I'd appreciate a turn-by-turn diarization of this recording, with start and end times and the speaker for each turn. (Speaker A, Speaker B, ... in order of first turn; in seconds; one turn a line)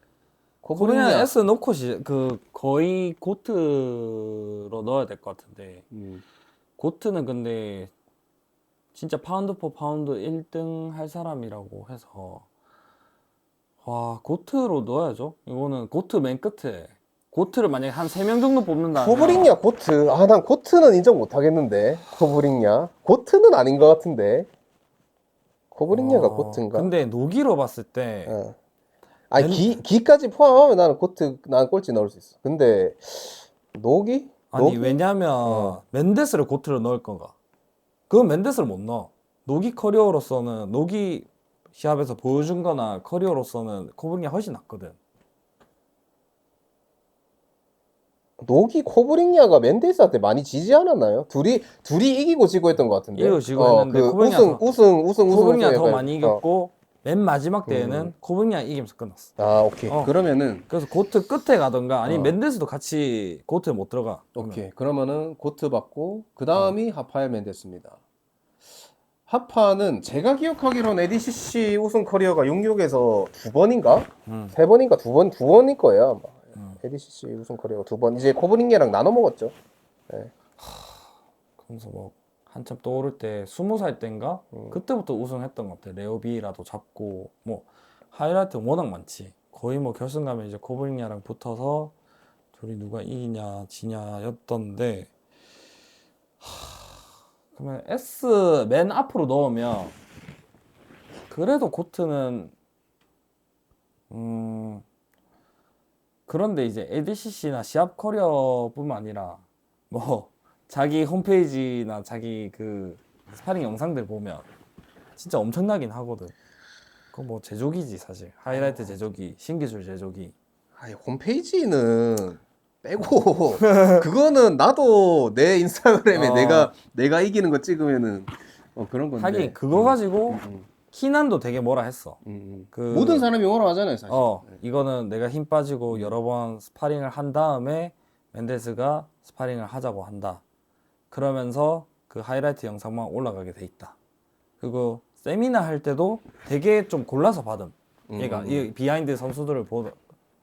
Speaker A: 0.6-1.4
Speaker B: 0.8-5.8
Speaker A: 5.9-6.2
Speaker B: 6.8-7.9
Speaker B: 8.9-12.4
Speaker B: 13.8-19.6
Speaker A: 18.9-24.5
Speaker A: 25.7-26.9
Speaker B: 25.9-28.4
Speaker A: 28.2-28.6
Speaker A: 29.3-35.8
Speaker B: 29.4-29.8
Speaker B: 34.5-37.3
Speaker B: 38.1-45.0
Speaker A: 48.4-56.4
Speaker B: 53.1-59.3
Speaker A: 57.6-58.1
Speaker A: 59.4-60.7
Speaker B: 60.7-64.6
Speaker A: 62.0-62.4
Speaker A: 64.3-68.0
Speaker A: 69.3-79.5
Speaker B: 74.3-74.5
Speaker B: 80.6-81.0
Speaker B: 81.6-91.9
Speaker A: 84.5-84.8
Speaker B: 92.5-95.1
Speaker B: 96.4-97.0
Speaker B: 97.5-99.9
Speaker B: 101.3-102.5
Speaker B: 104.1-104.8
Speaker B: 106.3-114.5
Speaker B: 115.2-116.3
Speaker B: 117.1-120.3
Speaker A: 118.5-119.0
Speaker A: 120.8-130.7
Speaker B: 123.6-124.0
Speaker B: 126.1-126.7
Speaker B: 129.2-132.2
Speaker A: 132.2-134.6
Speaker B: 132.7-133.3
Speaker B: 134.1-140.4
Speaker A: 135.9-136.2
Speaker B: 141.1-143.9
Speaker B: 144.6-150.0
Speaker A: 148.1-148.7